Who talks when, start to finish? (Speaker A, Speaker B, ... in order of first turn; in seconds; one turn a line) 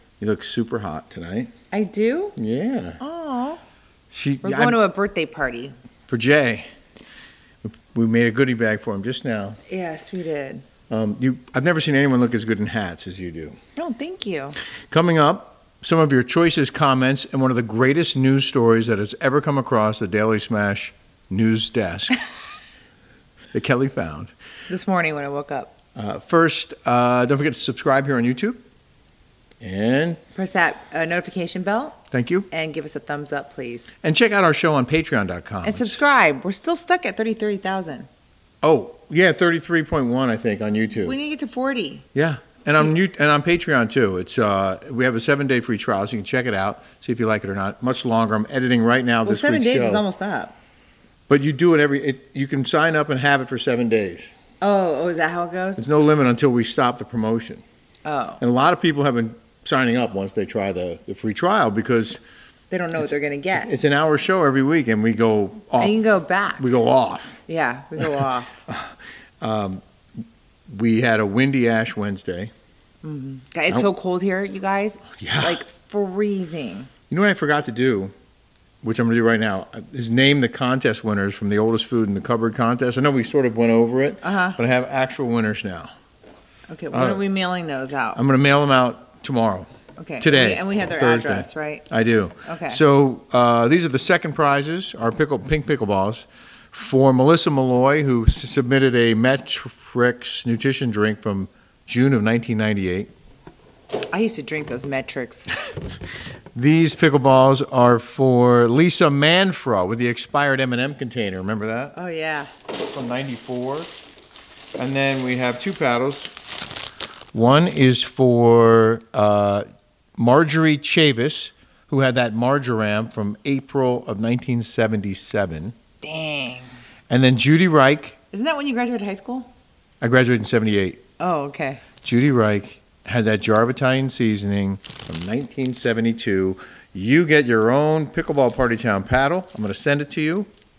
Speaker A: 0.2-1.5
Speaker B: 1.7-2.4
Speaker A: 2.4-3.0
Speaker B: 3.0-3.6
Speaker A: 4.1-4.8
Speaker B: 4.4-5.7
Speaker A: 6.1-6.7
Speaker A: 7.6-9.6
Speaker B: 9.7-10.6
Speaker A: 10.9-13.6
Speaker B: 13.8-14.6
Speaker A: 14.9-22.1
Speaker A: 23.5-24.3
Speaker B: 24.7-25.7
Speaker A: 25.9-28.6
Speaker A: 29.6-30.2
Speaker B: 30.3-32.0
Speaker A: 32.1-32.5
Speaker B: 32.5-33.9
Speaker A: 34.0-36.0
Speaker B: 35.6-38.1
Speaker A: 38.6-41.1
Speaker B: 41.0-42.0
Speaker A: 42.1-50.0
Speaker B: 49.2-50.5
Speaker A: 51.3-54.3
Speaker B: 54.6-55.9
Speaker A: 55.8-57.6
Speaker B: 58.0-58.4
Speaker A: 58.4-62.2
Speaker B: 62.7-63.7
Speaker A: 63.5-66.0
Speaker B: 65.8-66.7
Speaker A: 66.6-67.4
Speaker B: 67.5-68.6
Speaker A: 69.4-69.8
Speaker A: 70.7-72.5
Speaker B: 73.0-76.9
Speaker A: 75.1-75.6
Speaker A: 77.1-78.1
Speaker A: 78.8-85.9
Speaker B: 84.2-84.6
Speaker B: 86.7-88.2
Speaker A: 86.9-87.2
Speaker A: 88.1-89.7
Speaker B: 90.0-91.9
Speaker A: 90.2-103.1
Speaker B: 92.4-92.8
Speaker B: 104.1-105.5
Speaker A: 106.5-112.0
Speaker B: 111.9-112.5
Speaker A: 112.8-113.9
Speaker A: 114.8-116.3
Speaker A: 117.3-119.7
Speaker A: 120.2-125.7
Speaker B: 126.0-126.7
Speaker A: 127.1-128.2
Speaker B: 128.3-129.5
Speaker A: 130.0-131.0
Speaker B: 131.2-131.8
Speaker A: 132.0-140.5